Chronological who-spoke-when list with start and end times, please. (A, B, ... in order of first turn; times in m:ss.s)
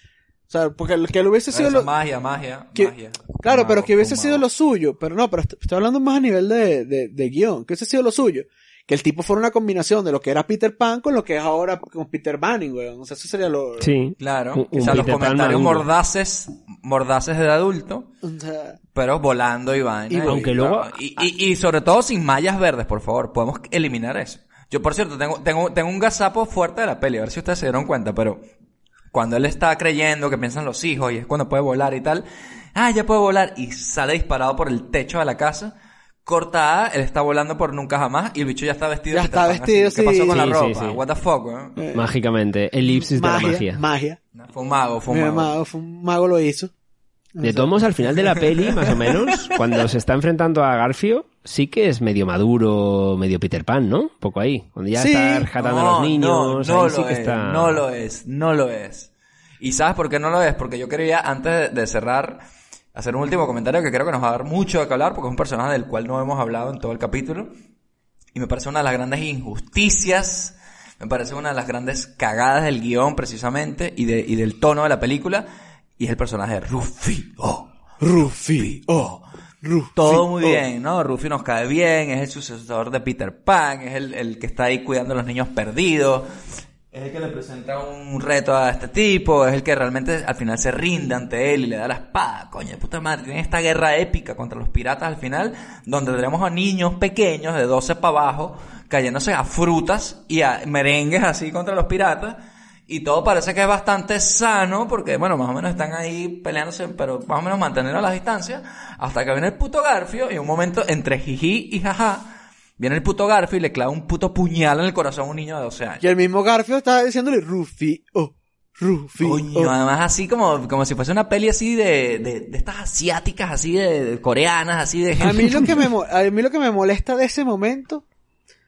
0:00.5-0:01.9 A
0:01.5-0:04.4 B
0:02.8-0:13.9 A
0:13.8-0:15.9 C
0:14.2-0:18.1 B
0:18.2-0:18.8 A
0:18.9-0:28.4 B
0:20.1-0:20.5 A
0:20.2-0:20.9 C
0:29.1-0:35.7 B
0:36.2-0:41.8 B
0:39.1-0:40.5 A
0:40.3-0:41.0 C
0:41.8-0:42.0 A
0:41.9-0:43.8 C
0:42.9-0:44.2 A
0:44.3-0:45.6 B
0:45.1-0:46.7 A
0:47.3-0:47.7 A
0:47.4-0:57.8 C
0:54.9-0:55.5 A
0:55.6-1:02.4 B
1:02.9-1:07.5 B
1:08.3-1:15.5 B
1:16.0-1:17.7 B
1:18.0-1:19.1 A
1:18.5-1:19.2 B
1:19.6-1:20.6 A
1:19.9-1:26.2 B
1:26.9-1:56.0 B
1:56.0-1:59.7 A
1:59.2-2:05.9 B
2:05.2-2:08.0 A